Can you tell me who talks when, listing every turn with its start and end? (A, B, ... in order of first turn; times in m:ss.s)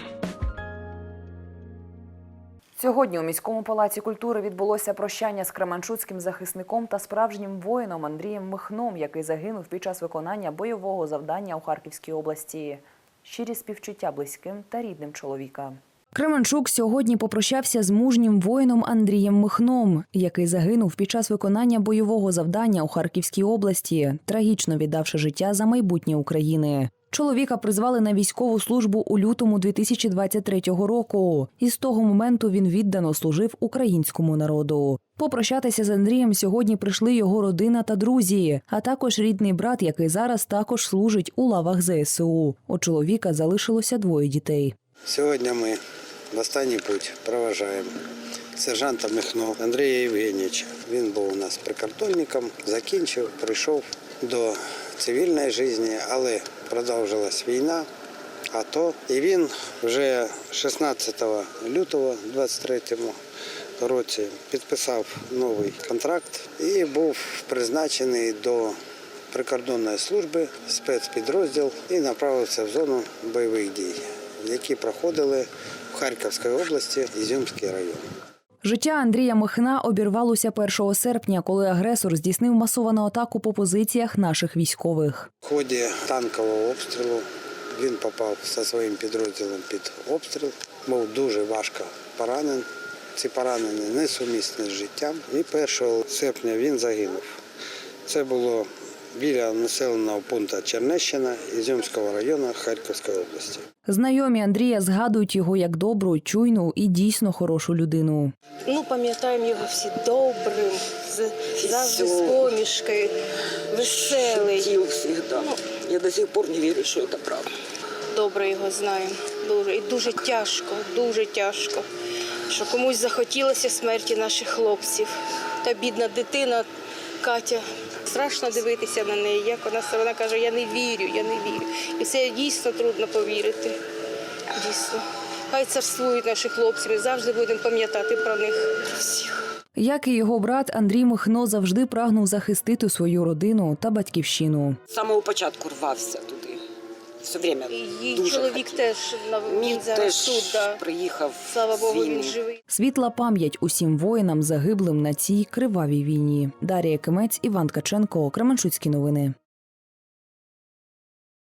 0:02.8-0:44.8 A
0:45.0-0:45.8 B
0:46.3-0:47.9 B
0:48.6-0:57.9 B
0:58.5-1:03.2 B
1:03.8-1:08.8 B
1:09.3-1:18.0 B
1:18.6-1:25.3 A
1:25.4-1:37.4 B
1:38.0-1:43.6 B
1:43.8-1:48.3 A
1:48.7-1:53.1 C
1:51.6-1:52.5 D
1:53.7-1:54.7 C
1:53.8-1:57.4 D
1:58.1-2:01.8 C
2:02.5-2:05.1 C
2:05.6-2:06.7 C
2:07.2-2:13.7 C
2:14.5-2:19.3 C
2:19.8-2:24.8 A
2:24.9-2:26.6 D
2:27.2-2:28.9 D
2:27.7-2:30.8 C
2:29.5-2:32.4 D
2:31.4-2:32.6 C
2:32.7-2:39.4 A